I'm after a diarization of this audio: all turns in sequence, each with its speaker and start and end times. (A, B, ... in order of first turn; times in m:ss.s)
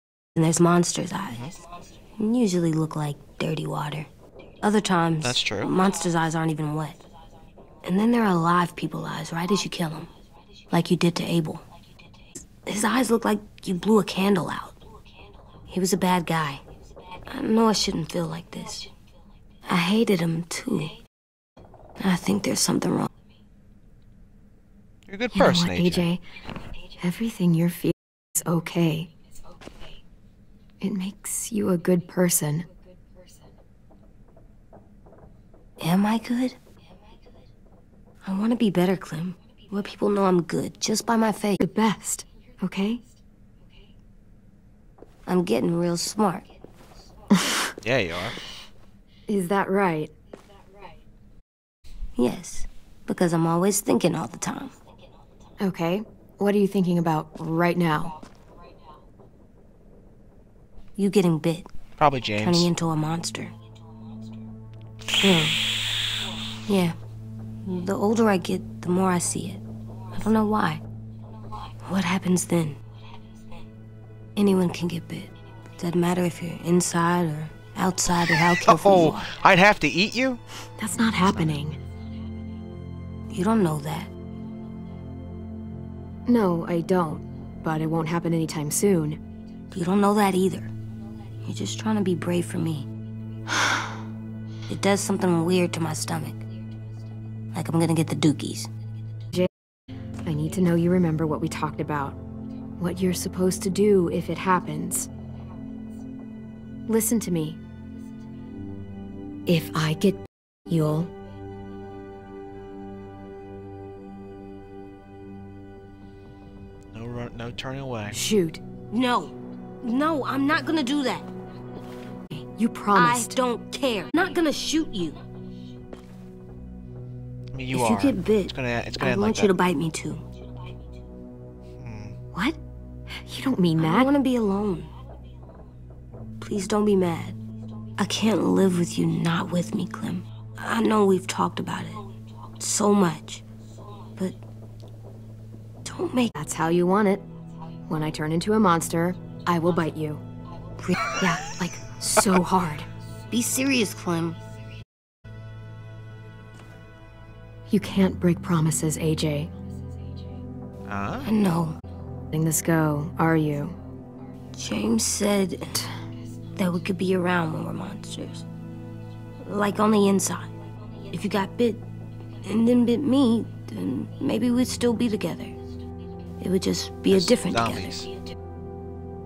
0:00.4-0:01.5 A
0:02.2-0:04.1 A
0:04.6-0:07.0 A
0:05.2-0:05.7 B
0:07.8-0:10.1 A
0:10.7-0:11.6 A
0:12.6-0:14.8 A
0:15.7-0:16.6 A
0:17.3-0:18.9 A
0:19.7-0:21.0 A
0:22.0-0:23.1 A
0:25.1-0:26.1 B
0:25.4-0:26.2 C
0:27.0-0:29.1 C
0:30.8-0:32.7 C
0:35.8-0:36.6 A
0:38.2-0:41.6 A
0:41.6-0:43.0 C
0:45.3-0:46.5 A
0:47.8-0:48.4 B
0:49.3-0:50.1 C
0:52.2-0:54.8 A
0:55.6-0:58.2 C
1:01.0-1:01.7 A
1:02.0-1:02.7 B
1:02.4-1:03.5 A
1:05.2-1:05.6 A
1:06.7-1:07.0 A
1:07.6-1:10.8 A
1:11.8-1:12.8 A
1:14.4-1:19.3 A
1:18.6-1:20.4 B
1:20.8-1:21.8 C
1:21.2-1:21.6 B
1:23.3-1:24.1 A
1:26.3-1:29.2 C
1:29.7-1:30.7 A
1:31.4-1:32.9 A
1:34.7-1:36.4 A
1:37.5-1:38.7 A
1:40.2-1:42.2 C
1:42.8-1:45.1 C
1:46.9-1:47.6 C
1:49.5-1:51.1 C
1:56.9-1:58.2 B
1:58.1-1:58.6 C
1:58.9-2:01.3 A
2:02.3-2:03.4 C
2:02.9-2:05.2 A
2:07.5-2:09.5 B
2:07.7-2:10.2 A
2:11.8-2:12.2 B
2:13.2-2:14.1 C
2:13.8-2:14.9 A
2:16.4-2:17.4 A
2:18.0-2:22.0 A
2:22.6-2:23.4 A
2:24.2-2:24.4 A
2:25.8-2:26.4 A
2:26.4-2:27.3 C
2:27.9-2:30.2 C
2:30.8-2:31.2 A
2:31.2-2:32.9 C
2:33.3-2:34.4 A
2:37.7-2:39.5 C
2:40.9-2:41.3 B
2:41.2-2:41.8 A
2:42.3-2:43.8 C
2:44.6-2:45.8 A
2:46.6-2:48.4 A
2:49.4-2:50.5 A
2:51.1-2:51.8 A
2:52.4-2:55.6 A
2:56.4-2:58.1 A
2:57.1-2:58.1 B